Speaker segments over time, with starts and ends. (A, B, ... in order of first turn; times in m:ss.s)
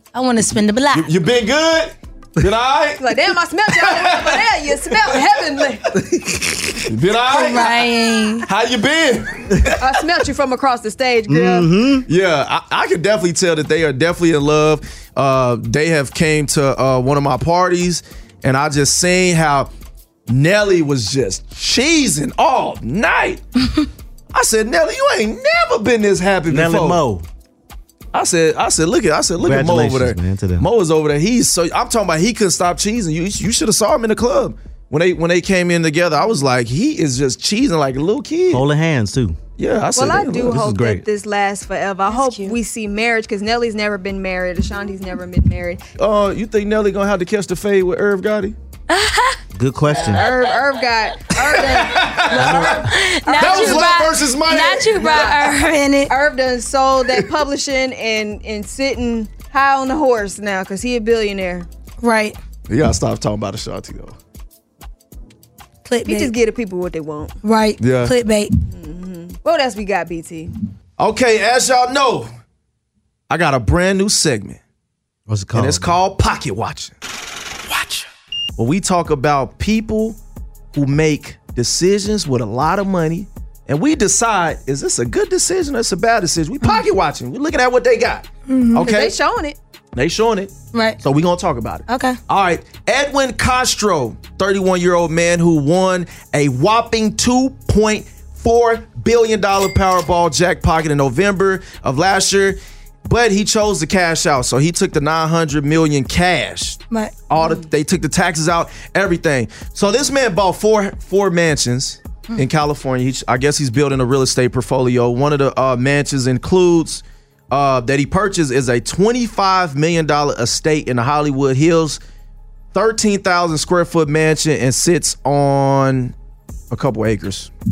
0:00.1-0:01.1 A
0:00.9-0:05.4 B
0:03.0-0:05.9 C
0:05.9-0:06.9 D
0:06.8-0:07.9 B
0:07.3-0:08.5 A
0:08.4-0:09.9 B
0:09.8-0:11.7 C
0:11.3-0:12.0 D
0:12.1-0:19.7 B
0:20.3-0:23.4 B
0:24.3-0:27.0 B
0:26.5-0:27.2 D
0:28.1-0:38.6 B
0:29.4-0:30.7 D
0:38.5-0:39.4 D
0:39.6-0:40.6 B
0:40.0-0:45.8 C
0:40.3-0:41.0 D
0:42.1-0:42.6 A
0:46.0-0:48.5 B
0:48.9-0:49.4 A
0:49.5-0:50.3 D
0:50.0-0:54.0 C
0:51.4-0:52.7 B
0:52.3-0:52.8 D
0:52.3-0:56.1 A
0:53.4-0:55.3 B
0:54.9-1:01.7 C
1:02.0-1:02.4 A
1:02.7-1:04.2 B
1:05.8-1:06.3 A
1:06.1-1:07.4 C
1:07.4-1:08.5 A
1:07.8-1:08.1 B
1:08.7-1:10.5 C
1:11.0-1:12.3 B
1:13.3-1:14.6 B
1:15.3-1:16.0 D
1:15.5-1:16.9 B
1:17.7-1:18.0 B
1:18.6-1:20.2 B
1:20.7-1:29.1 B
1:28.5-1:28.8 A
1:28.8-1:29.6 C
1:29.9-2:02.0 B
1:30.7-1:31.0 A
1:31.9-1:32.2 A
2:02.7-2:06.1 B
2:06.7-2:07.5 B